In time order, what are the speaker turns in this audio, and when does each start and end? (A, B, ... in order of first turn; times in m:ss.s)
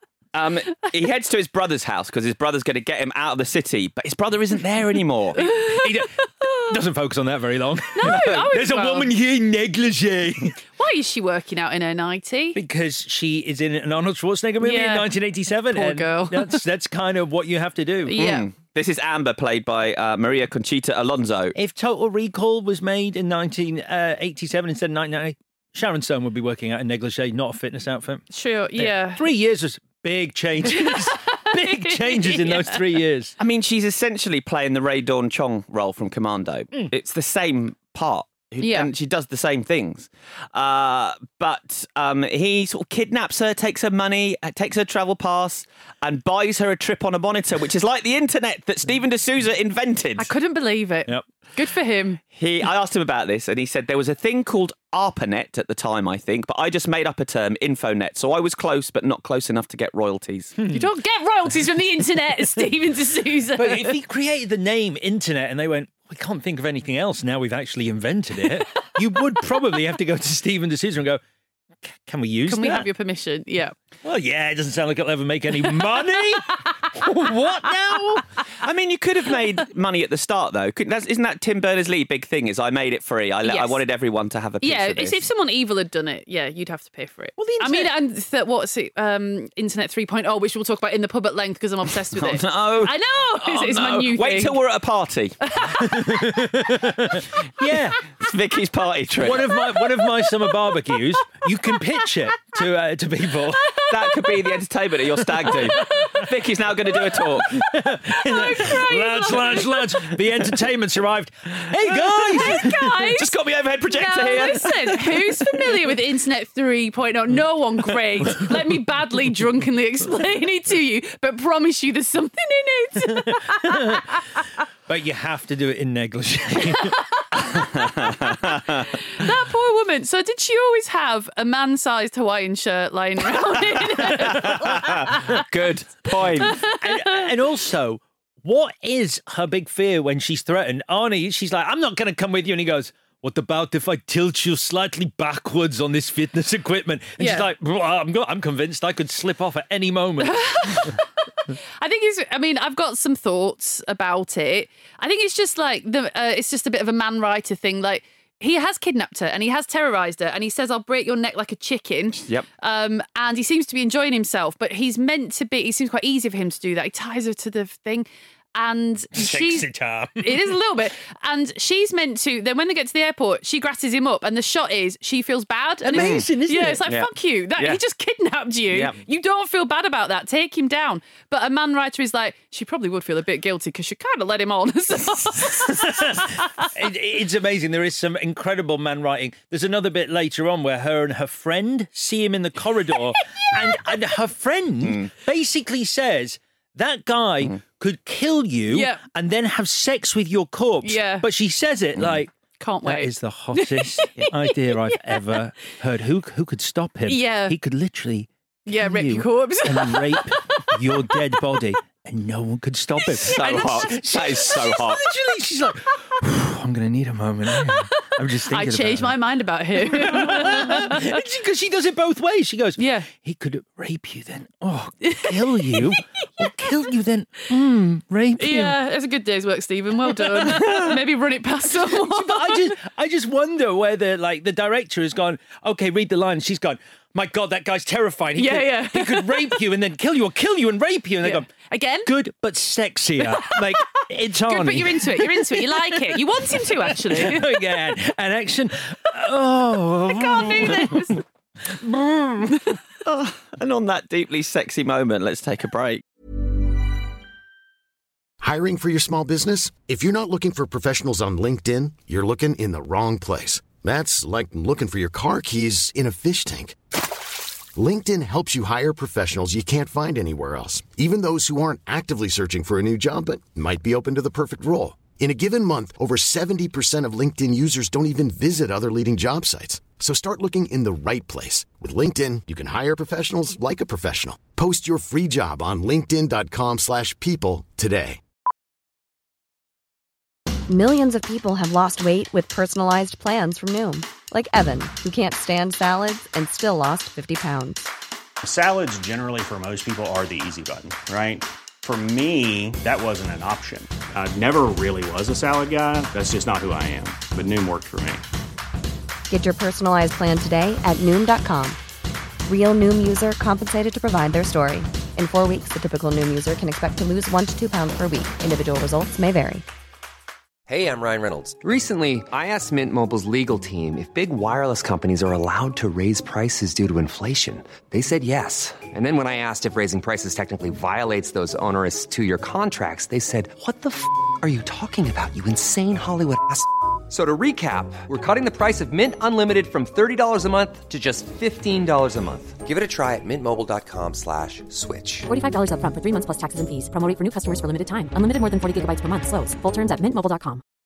0:00.3-0:05.4 A
0:05.4-0:06.7 B
0:05.4-0:06.1 C
0:06.6-0:10.6 C
0:08.0-0:09.1 B
0:08.0-0:08.4 A
0:10.7-0:12.6 B
0:12.6-0:18.2 C
0:14.6-0:15.1 B
0:15.7-0:16.6 B
0:18.1-0:18.5 B
0:18.2-0:21.5 A
0:21.6-0:28.2 C
0:28.3-0:29.2 B
0:28.8-0:33.4 C
0:30.7-0:32.8 B
0:33.4-0:50.3 A
0:38.6-0:38.9 B
0:50.2-0:52.2 B
0:52.3-1:00.6 A
1:00.6-1:00.8 C
1:00.7-1:04.0 B
1:03.6-1:11.2 C
1:12.0-1:12.9 C
1:12.5-1:13.8 B
1:14.0-1:18.2 C
1:18.6-1:25.2 A
1:23.4-1:23.8 B
1:24.6-1:34.6 B
1:27.4-1:27.9 C
1:32.1-1:35.4 A
1:35.4-1:36.4 B
1:35.8-1:38.0 C
1:38.2-1:39.5 A
1:39.2-1:43.7 C
1:43.7-1:44.4 B
1:43.9-1:47.6 A
1:45.6-1:46.2 B
1:47.6-1:52.9 C
1:48.1-1:49.9 B
1:52.3-1:53.3 B
1:52.4-1:55.3 A
1:53.9-2:04.4 B
2:03.1-2:04.0 C
2:04.9-2:07.0 C
2:06.7-2:07.2 B
2:07.5-2:08.9 A
2:09.1-2:15.4 B
2:13.4-2:16.6 A
2:16.4-2:17.2 B
2:16.7-2:30.9 C
2:27.2-2:27.5 B
2:30.2-2:31.0 B
2:31.8-3:06.3 B
2:49.1-2:50.6 C
2:55.8-2:56.8 C
2:55.9-2:56.3 A
2:56.9-2:57.8 A
2:58.7-2:59.0 A
3:05.7-3:22.3 C
3:18.7-3:19.0 B
3:20.8-3:21.3 B
3:22.6-3:25.4 B
3:22.8-3:39.2 C
3:27.1-3:27.6 B
3:28.7-3:31.6 B
3:33.1-3:35.0 A
3:37.6-3:41.2 B
3:39.9-3:48.8 C
3:42.8-3:43.1 B
3:45.0-3:46.0 B
3:48.4-3:52.7 B
3:50.1-3:50.9 C
3:51.9-4:01.5 C
3:58.4-3:59.6 B
4:01.2-4:02.1 B
4:02.0-4:11.1 C
4:03.4-4:03.8 B
4:04.4-4:07.7 B
4:10.1-4:11.2 B
4:11.7-4:12.6 C
4:13.0-4:16.0 A
4:18.4-4:26.8 D
4:27.8-4:48.2 D
4:50.7-4:57.9 E
4:58.4-5:08.2 F
5:09.3-5:11.8 E
5:12.5-5:19.6 E
5:20.7-5:45.3 G
5:45.3-5:50.6 H